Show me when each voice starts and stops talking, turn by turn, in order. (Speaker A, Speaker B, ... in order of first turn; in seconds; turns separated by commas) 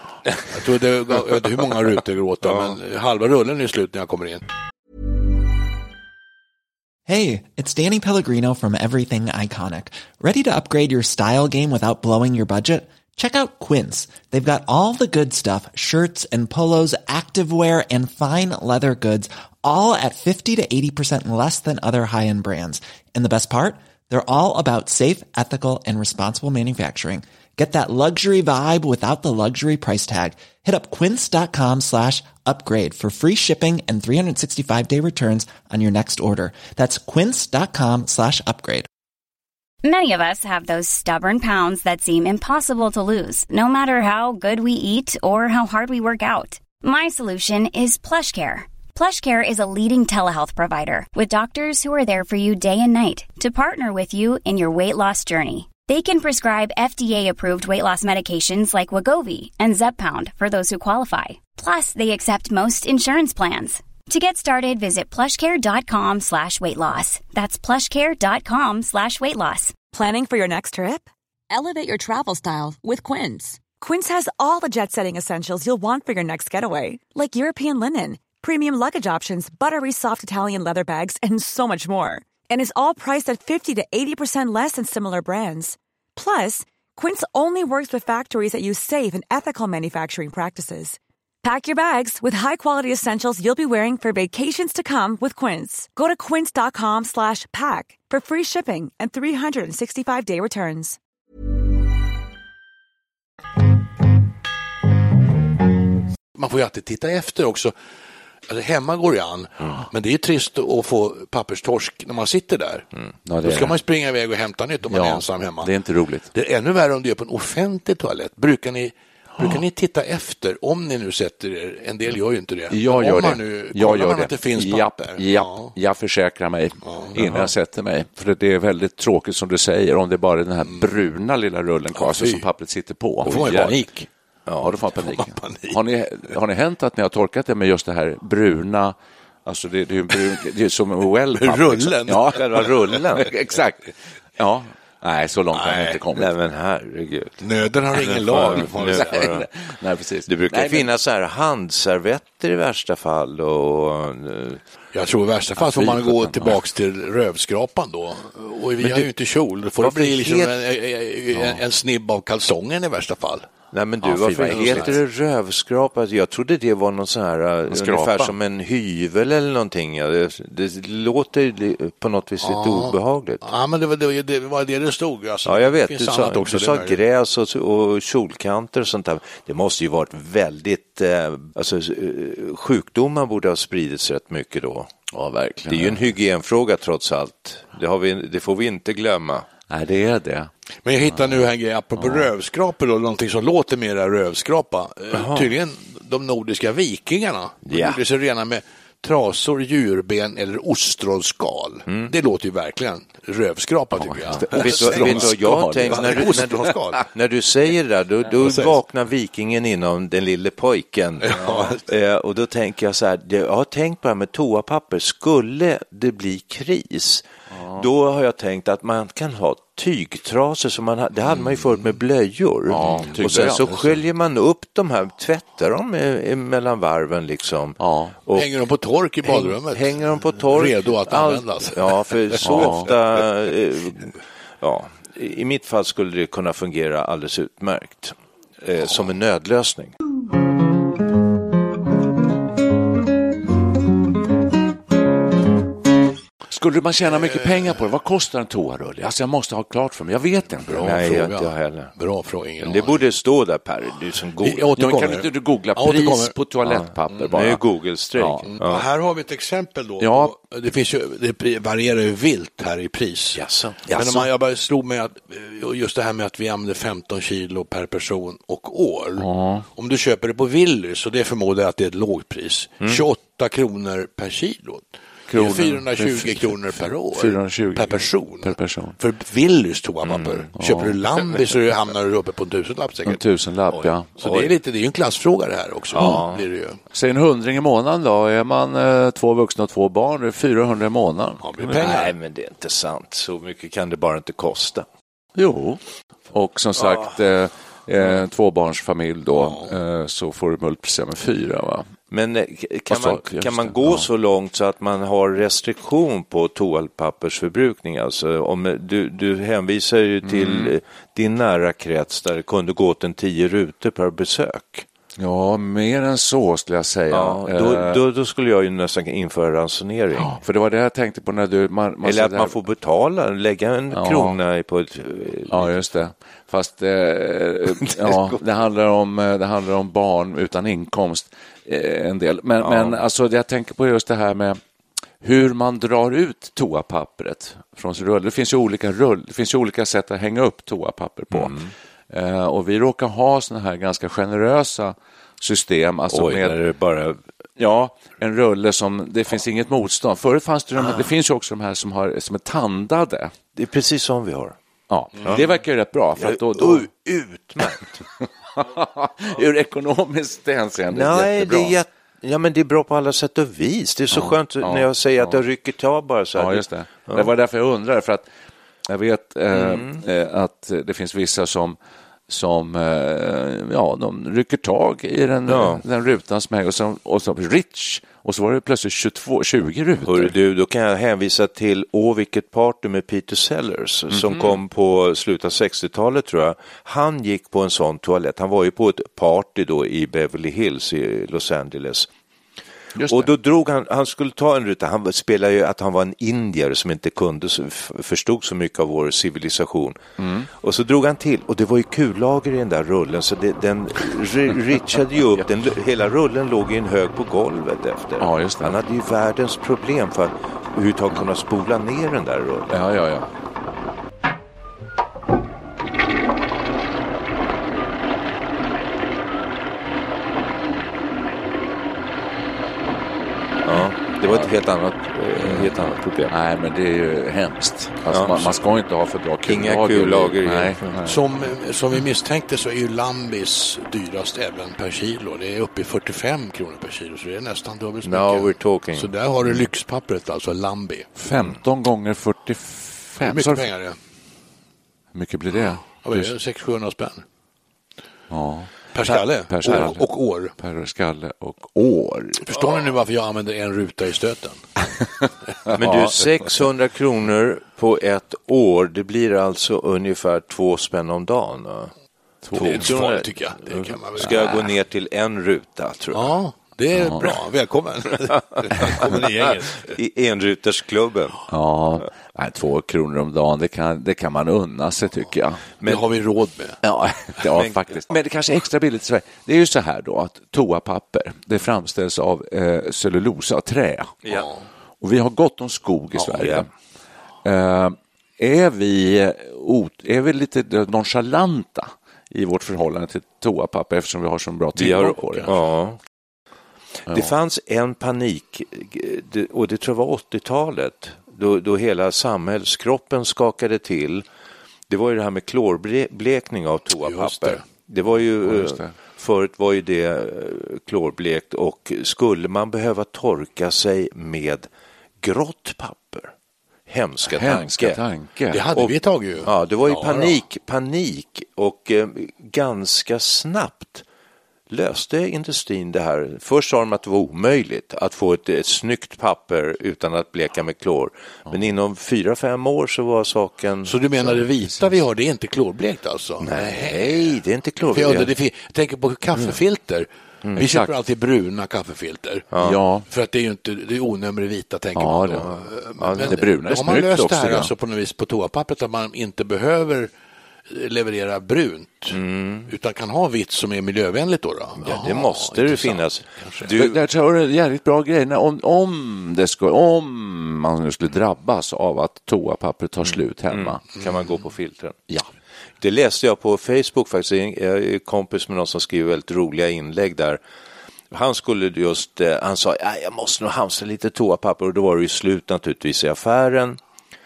Speaker A: 0.5-4.4, Speaker B: 7.1-38.9, Speaker C: 39.8-69.8, Speaker D: 69.9-101.0, Speaker A: 106.3-107.7, Speaker A: 108.5-112.9, Speaker E: 113.2-113.8, Speaker A: 113.4-115.7, Speaker E: 114.9-116.3, Speaker A: 116.3-125.7, Speaker E: 122.7-133.8, Speaker A: 126.9-127.5, Speaker A: 131.9-132.4, Speaker A: 133.2-134.1, Speaker F: 134.5-134.7, Speaker E: 134.6-138.9, Speaker A: 134.9-135.8, Speaker E: 139.4-146.3, Speaker A: 141.3-142.6, Speaker F: 142.3-143.3, Speaker A: 145.5-146.0, Speaker F: 146.1-147.4, Speaker A: 147.4-149.3, Speaker F: 148.0-149.5, Speaker E: 148.3-150.9, Speaker F: 150.3-154.6, Speaker A: 154.9-163.5, Speaker E: 155.6-156.6, Speaker F: 159.8-160.5, Speaker F: 163.7-173.4, Speaker E: 164.0-165.0, Speaker A: 164.4-164.9, Speaker E: 167.7-168.3, Speaker A: 172.4-177.0, Speaker F: 175.4-184.9, Speaker E: 185.1-186.0, Speaker F: 185.7-189.4, Speaker E: 189.7-190.5, Speaker A: 190.8-207.0, Speaker E: 192.0-192.3, Speaker F: 195.1-195.5, Speaker F: 197.7-198.0, Speaker E: 203.9-206.6, Speaker F: 204.5-211.3, Speaker A: 208.4-208.7, Speaker A: 211.2-211.8, Speaker F: 211.8-217.2, Speaker E: 217.5-217.8, Speaker F: 217.8-228.5, Speaker E: 222.7-224.0, Speaker E: 227.8-228.2, Speaker A: 228.3-232.9, Speaker F: 229.2-239.9, Speaker E: 232.4-232.9, Speaker E: 246.5-251.2, Speaker A: 250.7-253.0, Speaker F: 250.8-251.9, Speaker F: 252.6-254.7, Speaker A: 254.4-256.3, Speaker E: 254.8-257.6, Speaker F: 256.6-258.8, Speaker E: 258.2-258.4, Speaker A: 258.5-283.2, Speaker E: 260.0-260.3, Speaker F: 263.3-264.3, Speaker E: 269.2-269.7, Speaker E: 275.3-278.9, Speaker F: 280.0-280.4, Speaker E: 280.6-281.0, Speaker E: 283.1-284.1, Speaker A: 283.7-286.8, Speaker F: 284.2-284.5, Speaker F: 285.9-286.4, Speaker E: 286.9-292.1, Speaker A: 291.4-292.1, Speaker F: 291.7-294.9, Speaker E: 295.4-295.8, Speaker E: 296.3-301.9, Speaker F: 296.8-297.2, Speaker A: 299.3-299.7, Speaker F: 302.1-314.9, Speaker E: 302.9-304.0, Speaker E: 310.2-310.7, Speaker E: 315.2-318.0, Speaker F: 317.1-320.3, Speaker E: 320.2-322.6, Speaker F: 322.0-325.7, Speaker E: 323.9-324.4, Speaker E: 325.5-334.6, Speaker F: 327.8-328.4, Speaker F: 332.6-333.0, Speaker E: 335.2-341.6, Speaker F: 341.3-341.7, Speaker E: 342.1-346.6, Speaker F: 346.1-347.2, Speaker E: 347.6-353.3, Speaker F: 350.8-351.1, Speaker F: 353.6-354.6, Speaker E: 354.9-356.9, Speaker F: 356.2-358.0, Speaker E: 358.5-361.8, Speaker F: 360.9-367.3, Speaker E: 364.1-365.4, Speaker E: 366.4-368.2, Speaker E: 368.9-371.8, Speaker F: 369.5-370.0, Speaker E: 372.3-380.3, Speaker F: 375.5-375.8, Speaker F: 380.0-392.1, Speaker E: 384.1-384.6, Speaker E: 392.9-393.3, Speaker F: 393.1-400.0, Speaker E: 400.2-400.5, Speaker F: 400.6-412.8, Speaker E: 408.2-408.8, Speaker E: 412.7-413.3, Speaker F: 423.6-426.3, Speaker E: 425.4-431.2, Speaker F: 428.1-428.5, Speaker F: 429.4-431.0, Speaker A: 431.1-441.1, Speaker F: 438.0-439.1, Speaker E: 441.2-443.7, Speaker A: 443.2-444.0, Speaker E: 445.1-446.3, Speaker A: 446.0-447.2, Speaker E: 448.3-452.7, Speaker A: 448.9-450.5, Speaker A: 452.4-454.6, Speaker E: 455.2-456.3, Speaker F: 455.8-461.9, Speaker E: 462.4-462.9, Speaker F: 462.5-466.3, Speaker A: 462.6-464.6, Speaker A: 466.1-469.9, Speaker E: 466.9-467.2, Speaker F: 468.8-471.4, Speaker E: 471.5-475.6, Speaker A: 475.8-476.8, Speaker E: 476.8-484.2, Speaker F: 477.5-478.1, Speaker E: 485.0-486.7, Speaker F: 486.3-486.6, Speaker E: 487.4-495.5, Speaker F: 494.7-496.0, Speaker F: 497.1-504.2, Speaker F: 504.9-514.7, Speaker A: 507.0-507.6, Speaker E: 508.4-508.9, Speaker F: 515.2-516.3, Speaker F: 516.9-518.0, Speaker E: 517.2-518.6, Speaker A: 518.5-520.4, Speaker F: 518.7-524.0, Speaker F: 524.7-533.9, Speaker A: 533.8-537.4, Speaker E: 534.7-534.9, Speaker F: 536.4-538.3, Speaker A: 537.9-542.5, Speaker E: 540.6-540.9, Speaker F: 542.5-542.8, Speaker E: 542.6-543.0, Speaker A: 543.1-550.1, Speaker E: 544.9-545.5, Speaker F: 545.4-546.4, Speaker E: 546.2-547.7, Speaker A: 550.7-556.7, Speaker F: 552.1-552.7, Speaker F: 554.8-557.0, Speaker E: 556.7-563.8, Speaker F: 563.0-565.0, Speaker F: 565.8-570.4, Speaker F: 571.1-576.8